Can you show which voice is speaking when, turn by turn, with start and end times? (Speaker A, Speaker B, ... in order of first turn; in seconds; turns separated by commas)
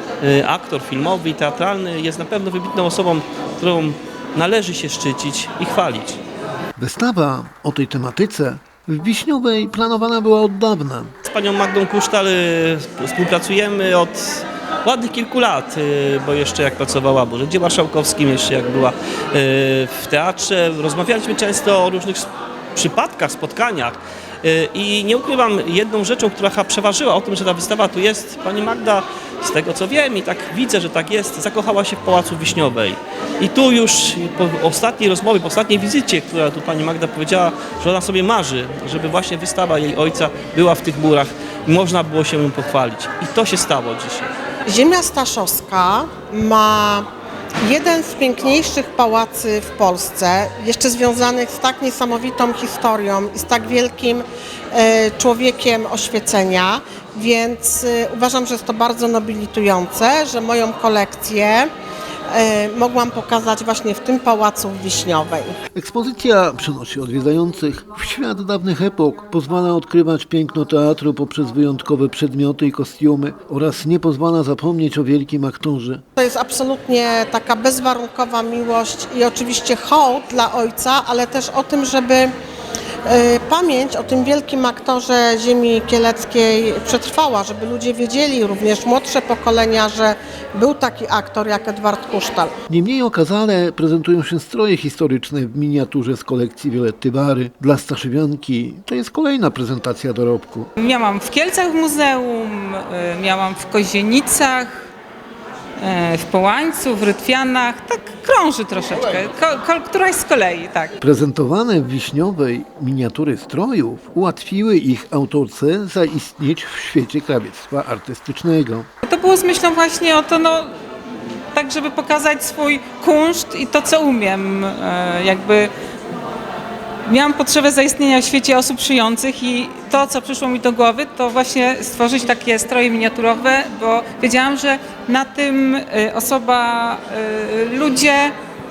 Speaker A: 0.2-6.2, Speaker B: 6.8-11.1, Speaker A: 11.2-44.3, Speaker C: 44.7-47.1, Speaker C: 47.6-61.7, Speaker C: 62.3-65.5, Speaker B: 65.7-76.0, Speaker C: 76.2-82.3, Speaker C: 83.1-92.5, Speaker B: 92.7-100.7, Speaker D: 100.8-104.9, Speaker D: 105.8-111.0, Speaker B: 111.0-118.9, Speaker D: 119.0-120.7, Speaker D: 121.5-125.7, Speaker D: 127.1-138.3